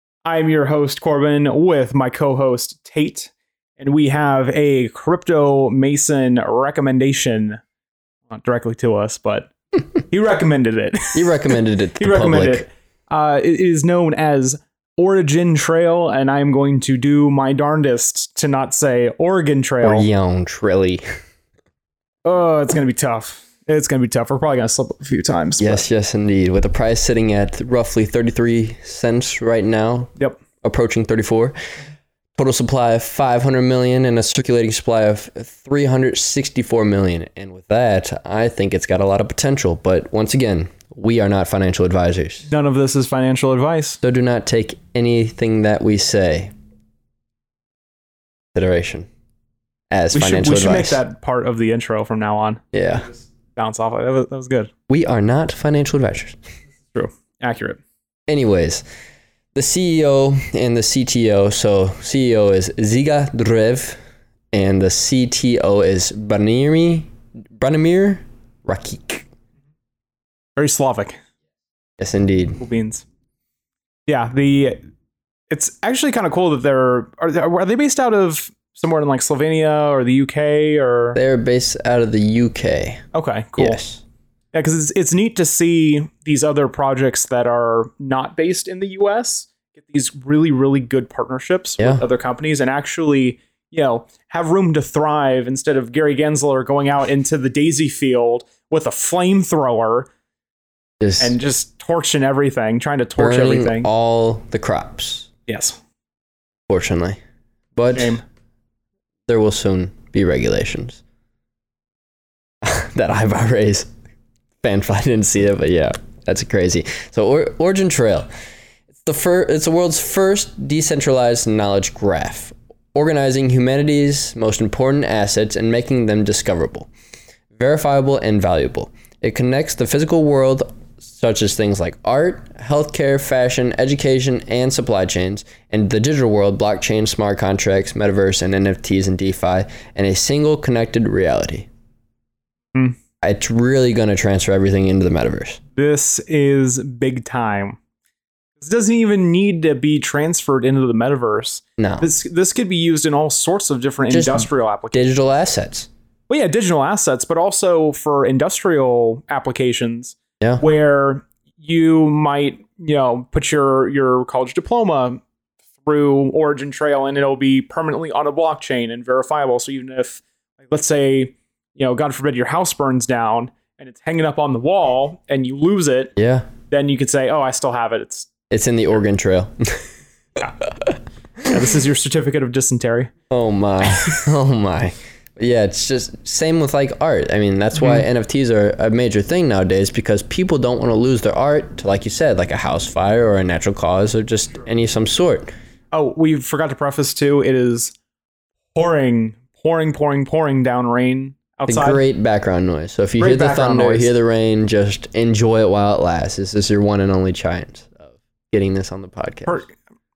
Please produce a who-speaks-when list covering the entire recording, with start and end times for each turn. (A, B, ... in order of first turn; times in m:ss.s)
0:00.2-0:07.6 A
0:08.3-0:20.1 A
0:11.1-0:12.6 B
0:19.8-0:21.0 B
0:22.2-0:25.8 A
0:25.6-0:31.6 B
0:32.4-0:42.5 B
0:42.5-0:44.0 A
0:44.0-0:46.5 B
0:48.6-0:49.1 B
0:49.9-0:51.0 B
0:50.1-0:52.6 A
0:52.7-0:53.1 B
0:53.6-0:54.7 A
0:54.9-0:56.4 B
0:56.9-0:57.8 A
0:58.3-0:58.8 B
0:59.5-1:04.0 B
1:04.5-1:09.3 B
1:10.6-1:11.2 A
1:12.0-1:12.6 B
1:12.6-1:13.0 A
1:14.1-1:14.8 A
1:15.5-1:21.2 A
1:21.2-1:23.0 B
1:23.1-1:23.8 A
1:23.6-1:24.0 B
1:24.5-1:40.1 A
1:41.0-1:41.4 B
1:41.2-1:43.9 A
1:43.2-1:45.3 B
1:45.5-1:45.8 A
1:46.7-1:47.2 B
1:47.8-1:48.2 B
1:47.9-1:48.2 A
1:49.3-1:51.0 B
1:52.6-1:53.9 B
1:54.6-1:58.3 B
1:58.9-2:06.9 B
2:07.5-2:21.7 B
2:23.2-2:25.6 B
2:25.8-2:27.8 A
2:28.6-2:35.1 A
2:31.8-2:32.1 B
2:34.1-2:35.9 B
2:36.3-2:45.2 A
2:45.8-2:56.2 A
2:56.2-2:56.5 B
2:56.7-2:58.3 A
2:58.5-2:59.8 B
3:01.4-3:03.1 A
3:03.3-3:15.5 B
3:07.8-3:08.0 A
3:15.9-3:17.9 A
3:18.8-3:22.0 A
3:21.7-3:29.6 B
3:23.2-3:24.1 A
3:29.5-3:29.7 A